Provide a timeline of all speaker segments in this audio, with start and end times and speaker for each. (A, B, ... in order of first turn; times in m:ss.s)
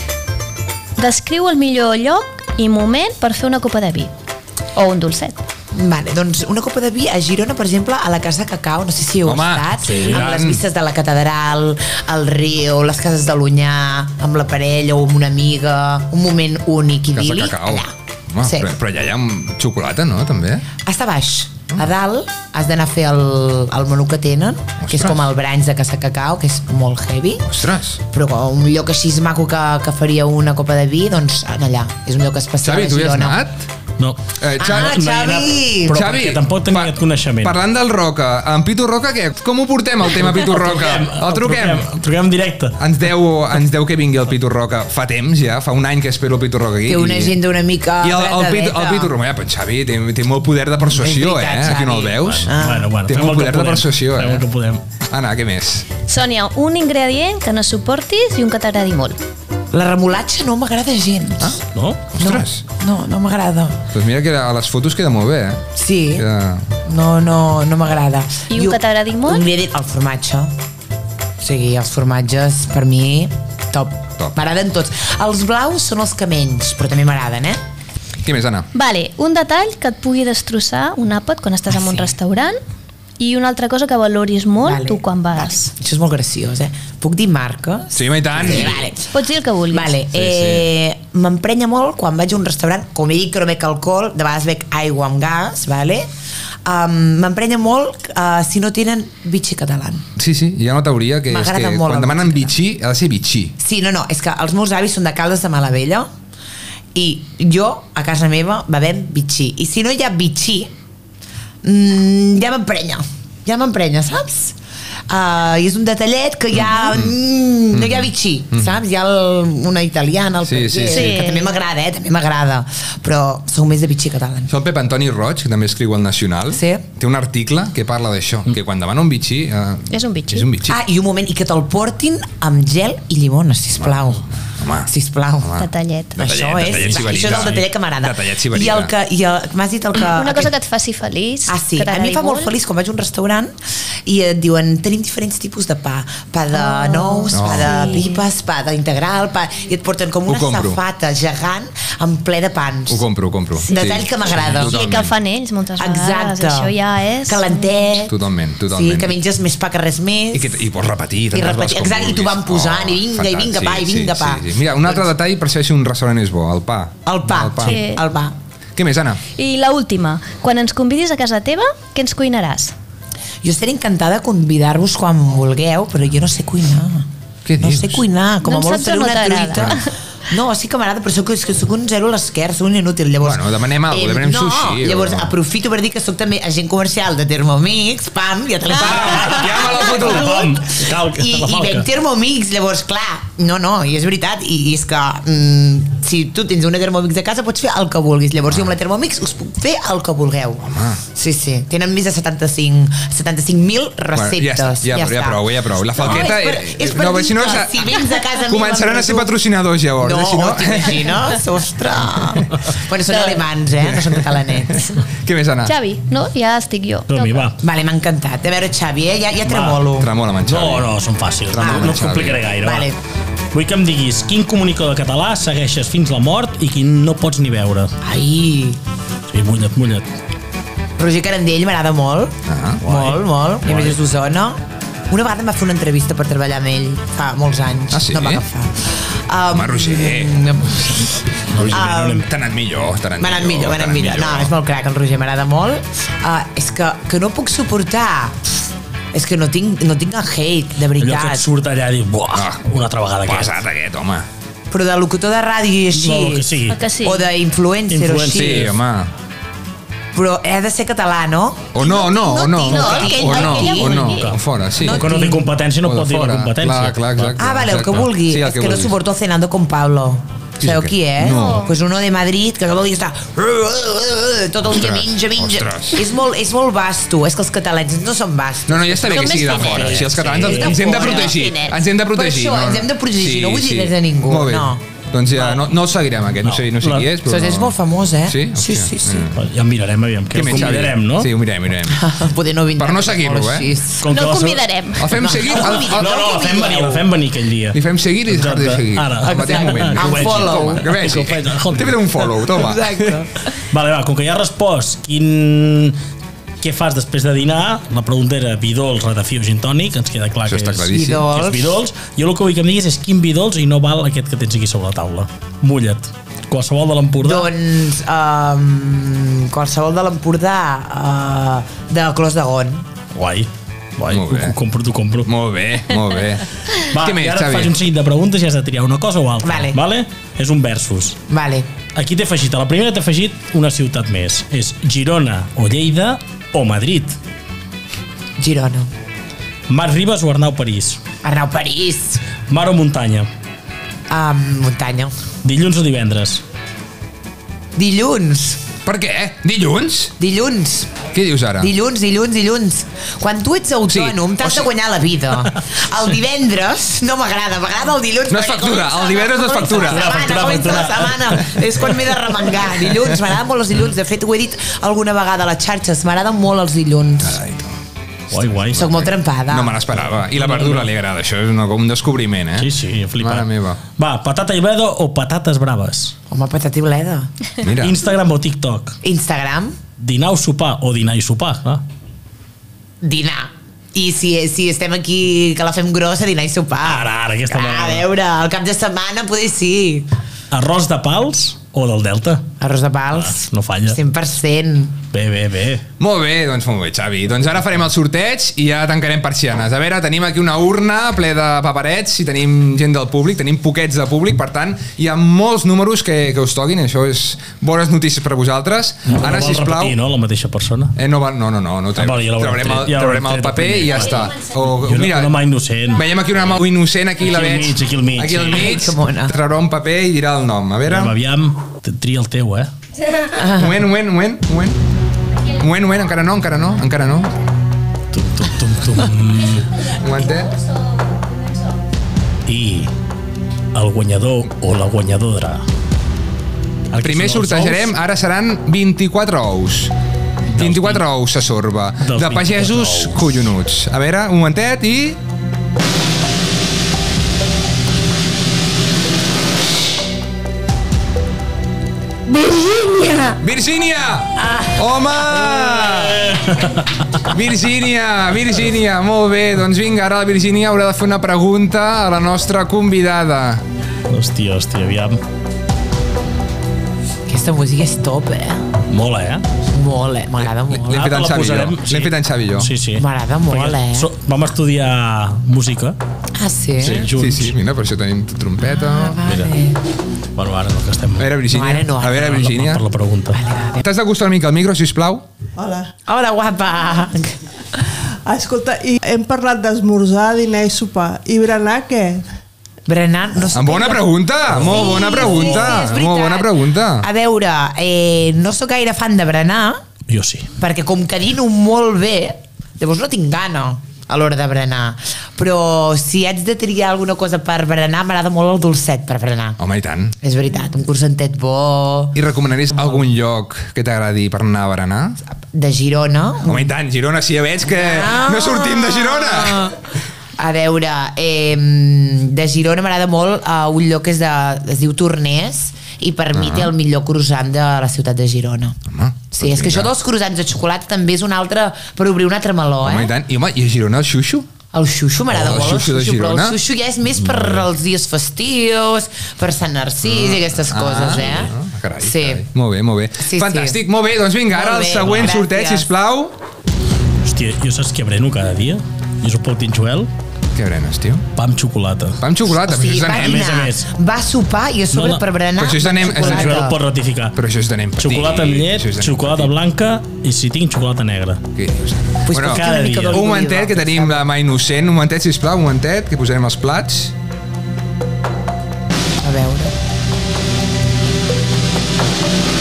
0:01.0-0:04.1 A
0:04.8-0:05.4 A
0:05.7-0:18.7 B
0:09.2-0:10.6 C
0:09.9-0:10.2 D
0:17.1-0:20.7 C
0:20.8-0:27.4 B
0:24.8-0:25.3 C
0:27.5-0:28.0 C
0:28.1-0:33.4 B
0:32.6-0:33.7 C
0:34.0-0:37.6 D
0:34.4-0:35.0 C
0:34.6-0:36.0 B
0:35.9-0:41.9 C
0:40.1-0:42.8 D
0:42.8-0:47.4 C
0:46.9-0:49.1 B
0:48.0-0:54.5 C
0:50.9-0:52.9 B
0:52.2-0:54.8 D
0:55.0-0:55.9 C
0:56.1-0:59.2 A
0:59.7-1:01.6 B
1:01.4-1:02.6 C
1:01.7-1:02.0 D
1:02.2-1:03.9 B
1:03.9-1:06.7 C
1:05.8-1:06.3 B
1:06.8-1:10.5 B
1:08.5-1:09.5 A
1:11.4-1:17.6 B
1:18.2-1:18.7 C
1:18.7-1:22.6 A
1:21.7-1:22.1 B
1:23.2-1:25.7 A
1:24.6-1:29.1 B
1:27.9-1:28.9 C
1:28.6-1:29.9 A
1:29.7-1:36.1 B
1:30.1-1:30.7 C
1:36.6-1:40.1 B
1:40.2-1:43.6 C
1:41.3-1:42.5 B
1:43.6-1:46.1 B
1:46.9-1:50.7 B
1:51.6-1:54.6 B
1:55.1-2:04.5 B
1:56.6-1:57.1 C
1:57.7-1:58.7 C
2:00.4-2:01.1 C
2:00.9-2:01.5 A
2:04.5-2:10.8 C
2:06.5-2:06.8 B
2:09.9-2:10.5 A
2:10.7-2:14.2 B
2:13.8-2:14.9 C
2:14.9-2:15.5 B
2:15.4-2:18.9 C
2:15.6-2:16.2 A
2:16.2-2:20.5 B
2:16.2-2:17.6 D
2:20.0-2:22.5 A
2:21.5-2:23.5 B
2:24.1-2:33.0 B
2:26.5-2:28.2 A
2:27.3-2:27.9 C
2:30.3-2:30.8 C
2:32.9-2:35.1 C
2:33.6-2:34.7 B
2:33.7-2:34.0 A
2:34.6-2:37.8 A
2:35.8-2:36.7 B
2:37.3-2:38.1 B
2:38.0-2:39.2 C
2:38.7-2:40.6 B
2:40.3-2:47.9 C
2:41.3-2:44.5 B
2:47.1-2:48.4 B
2:47.6-2:48.0 A
2:48.8-2:49.2 C
2:49.4-2:52.7 A
2:53.4-2:57.1 B
2:57.4-2:58.0 C
2:57.6-3:29.3 B
2:58.4-2:59.9 A
2:59.5-2:59.8 C
3:03.2-3:05.4 C
3:08.7-3:10.5 C
3:08.9-3:11.9 D
3:20.6-3:21.0 C
3:24.1-3:27.9 C
3:28.5-3:31.3 C
3:30.0-3:35.0 B
3:33.1-3:33.4 A
3:33.8-3:35.7 C
3:35.6-3:37.5 A
3:37.1-3:37.6 D
3:37.6-3:40.1 B
3:39.5-3:39.8 D
3:39.9-3:40.9 C
3:40.4-3:42.9 D
3:41.5-3:42.5 C
3:41.6-3:43.0 B
3:43.5-3:48.0 D
3:48.0-3:48.8 B
3:49.3-3:50.1 D
3:51.0-4:02.3 B
3:52.5-3:52.8 C
3:52.8-3:54.0 D
3:57.9-3:58.4 C
3:59.5-4:00.5 C
4:01.5-4:02.3 D
4:01.5-4:04.5 C
4:03.2-4:08.5 B
4:09.1-4:11.5 B
4:11.0-4:13.6 D
4:12.3-4:12.6 C
4:13.2-4:14.3 C
4:14.7-4:18.7 B
4:16.0-4:16.8 D
4:16.7-4:17.2 A
4:17.9-4:18.7 D
4:18.3-4:19.1 C
4:20.1-4:24.1 B
4:21.7-4:25.1 C
4:21.8-4:24.3 A
4:22.9-4:23.3 D
4:24.0-4:27.4 D
4:24.8-4:25.4 B
4:25.8-4:29.0 C
4:27.4-4:41.5 B
4:30.6-4:31.7 C
4:31.2-4:31.7 A
4:34.6-4:36.1 C
4:38.7-4:49.4 C
4:39.1-4:41.8 A
4:40.1-4:40.8 D
4:42.1-4:44.8 B
4:45.3-4:45.6 B
4:46.4-4:47.1 D
4:47.3-4:49.3 B
4:49.3-4:51.3 D
4:50.3-4:52.0 C
4:51.9-4:54.1 B
4:52.8-4:53.7 C
4:54.0-4:54.7 D
4:54.1-4:55.2 A
4:55.0-4:56.1 C
4:55.2-4:57.1 B
4:55.5-5:02.2 D
4:57.7-5:03.2 C
4:59.2-5:00.9 B
5:02.5-5:03.3 B
5:03.6-5:06.0 D
5:06.6-5:17.5 D
5:10.4-5:11.3 C
5:10.9-5:11.8 B
5:17.2-5:22.9 B
5:23.1-5:25.3 D
5:24.1-5:24.6 C
5:25.2-5:27.8 C
5:26.8-5:31.2 D
5:29.4-5:29.8 B
5:31.3-5:31.7 B
5:32.0-5:37.2 D
5:38.4-5:38.9 B
5:39.7-5:41.0 D
5:41.2-5:42.2 B
5:42.5-5:43.3 D
5:44.1-5:45.1 B
5:45.4-5:46.4 D
5:47.8-5:48.6 B
5:48.8-5:50.2 C
5:50.2-5:51.0 B
5:51.1-5:51.7 C
5:51.6-6:07.4 B
5:53.9-5:54.7 C
5:58.3-6:00.5 C
5:59.9-6:01.7 D
6:07.2-6:07.8 C
6:08.3-6:09.0 D
6:08.4-6:13.8 C
6:08.7-6:09.8 B
6:10.0-6:10.9 D
6:12.6-6:16.2 D
6:16.3-6:17.3 B
6:17.6-6:18.0 C
6:17.7-6:19.0 D
6:19.0-6:19.8 B
6:20.0-6:21.8 D
6:23.0-6:30.1 B
6:26.8-6:28.1 D
6:30.5-6:32.5 D
6:32.6-6:35.0 B
6:33.1-6:34.0 D
6:35.1-6:35.8 D
6:36.0-6:50.0 C
6:49.1-6:51.0 D
6:51.0-6:55.4 C
6:52.0-6:56.1 D
6:55.9-7:01.2 C
6:57.2-6:58.8 D
6:58.5-6:59.3 B
7:00.9-7:02.7 D
7:03.4-7:03.7 B
7:03.4-7:04.8 C
7:05.5-7:07.3 C
7:08.1-7:09.7 D
7:09.9-7:10.5 C
7:12.5-7:12.9 D
7:13.7-7:15.6 D
7:16.9-7:18.0 D
7:17.0-7:19.9 C
7:20.5-7:21.0 D
7:20.5-7:25.2 C
7:22.0-7:23.3 D
7:33.3-7:36.3 C
7:35.5-7:37.3 D
7:37.2-7:43.6 C
7:44.1-7:45.2 D
7:47.3-7:48.7 B
7:48.9-7:49.5 D
7:49.6-7:51.1 B
7:50.4-7:52.7 C
7:50.9-7:56.0 D
7:53.0-7:54.1 B
7:56.4-7:57.0 B
7:56.8-7:57.6 D
7:56.8-7:59.2 C
7:58.7-7:59.8 B
7:59.2-7:59.5 D
8:00.4-8:01.4 D
8:01.2-8:02.8 C
8:01.5-8:02.5 B
8:02.1-8:03.4 D
8:03.3-8:03.8 B
8:03.8-8:05.3 C
8:05.6-8:05.9 E
8:06.1-8:07.4 B
8:08.2-8:12.3 E
8:12.9-8:19.8 B
8:13.4-8:17.1 C
8:14.5-8:15.7 D
8:20.1-8:20.5 D
8:20.6-8:29.6 B
8:29.6-8:30.2 C
8:30.2-8:32.2 B
8:32.2-8:35.2 C
8:35.5-8:36.7 B
8:36.5-8:39.8 C
8:37.7-8:39.8 B
8:40.4-8:48.8 B
8:46.3-8:46.7 C
8:48.9-8:49.9 C
8:49.3-8:53.1 B
8:52.8-8:54.5 C
8:54.7-9:02.4 B
8:55.3-8:56.6 C
8:57.2-8:57.7 D
9:00.0-9:06.4 C
9:03.2-9:03.8 B
9:04.5-9:05.9 B
9:07.2-9:10.1 D
9:10.5-9:11.3 C
9:11.4-9:12.2 D
9:12.2-9:13.6 C
9:12.5-9:16.8 B
9:13.0-9:13.9 D
9:14.9-9:15.2 D
9:15.6-9:16.6 C
9:16.0-9:17.4 D
9:17.3-9:19.5 C
9:18.0-9:21.4 D
9:21.6-9:27.1 C
9:22.2-9:24.3 B
9:22.4-9:23.3 D
9:29.2-9:29.7 B